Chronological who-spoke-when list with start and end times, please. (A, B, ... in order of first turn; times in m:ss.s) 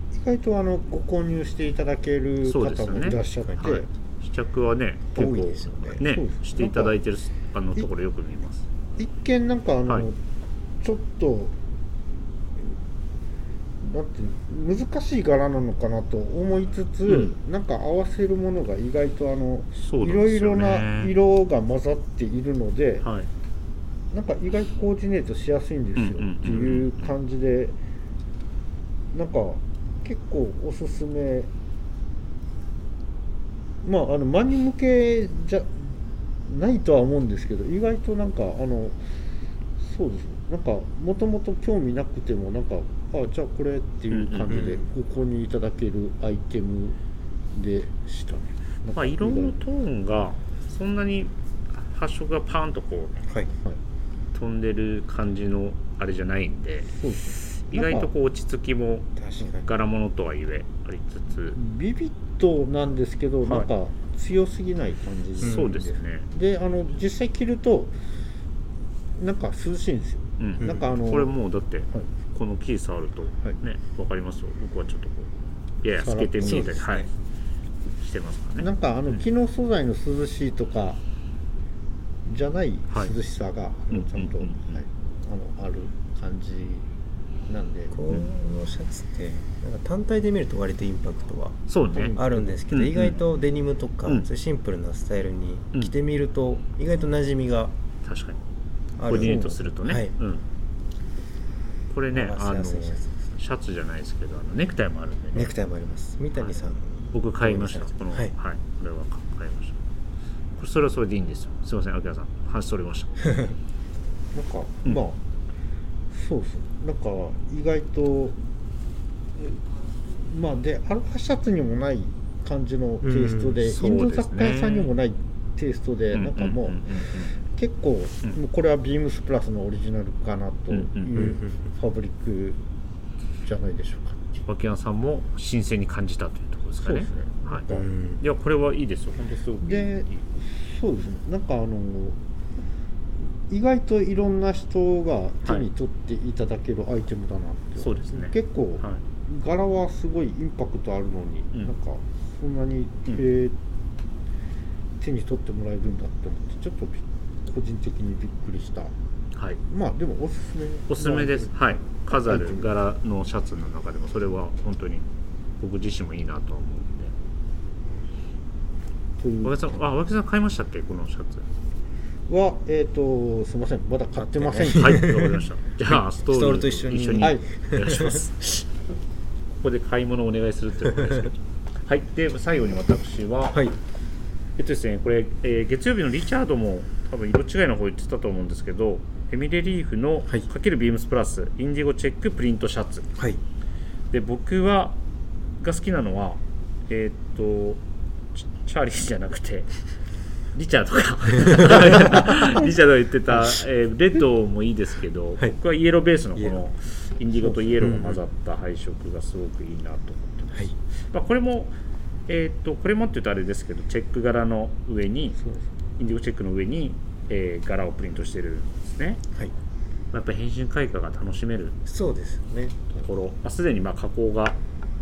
0:00.1-0:03.9 A
0:02.4-0:08.6 B
0:05.1-0:06.0 C
0:06.0-0:06.9 A
0:09.0-0:10.2 A
0:10.8-0:11.6 A
0:13.8-0:23.1 A
0:17.1-0:17.4 B
0:19.8-0:21.1 B
0:23.0-0:23.3 B
0:24.1-0:27.7 A
0:26.0-0:27.1 B
0:29.1-0:31.5 A
0:33.8-0:35.9 A
0:36.4-0:39.0 A
0:39.8-0:47.0 A
0:44.1-0:44.6 B
0:44.5-0:44.8 C
0:47.5-0:49.6 A
0:48.9-0:53.2 B
0:54.3-0:56.9 B
0:56.9-0:58.1 A
0:57.4-1:01.6 B
0:59.2-0:59.7 C
1:01.5-1:08.0 A
1:05.4-1:06.3 B
1:09.2-1:11.3 A
1:10.4-1:15.3 B
1:15.8-1:17.1 B
1:16.0-1:16.7 A
1:16.4-1:17.1 C
1:18.0-1:19.2 B
1:18.6-1:21.0 A
1:22.2-1:26.8 A
1:23.9-1:24.8 B
1:27.5-1:28.0 A
1:27.9-1:37.8 C
1:31.7-1:33.2 B
1:38.0-1:38.4 B
1:39.0-1:40.1 C
1:39.0-1:40.4 B
1:39.1-1:39.6 A
1:41.9-1:45.5 B
1:42.1-1:43.3 C
1:45.3-1:48.3 C
1:46.4-1:49.8 B
1:50.6-1:53.3 B
1:54.3-1:55.2 A
1:56.1-1:58.4 A
2:00.1-2:12.6 A
2:03.0-2:03.6 C
2:03.6-2:04.9 B
2:06.1-2:07.3 B
2:10.7-2:11.2 B
2:11.2-2:11.5 C
2:13.4-2:14.4 A
2:14.5-2:17.7 B
2:16.8-2:17.9 A
2:17.7-2:18.2 C
2:18.2-2:20.2 B
2:19.6-2:22.2 A
2:23.2-2:33.6 A
2:27.8-2:29.0 B
2:35.0-2:38.9 A
2:39.7-2:42.7 A
2:40.9-2:45.0 B
2:45.6-2:47.1 B
2:49.2-2:49.8 A
2:49.4-2:51.5 B
2:52.3-2:55.3 A
2:54.4-2:55.4 C
2:54.6-2:58.4 B
2:56.2-2:58.6 C
2:57.2-2:57.4 A
2:59.6-3:03.7 B
3:04.6-3:13.1 B
3:13.1-3:13.4 C
3:14.1-3:15.0 B
3:15.6-3:17.8 B
3:18.4-3:19.7 B
3:20.5-3:31.7 B
3:27.8-3:28.2 C
3:32.3-3:35.4 B
3:36.0-3:39.2 B
3:40.1-3:41.8 B
3:41.8-3:42.8 C
3:42.9-3:44.6 B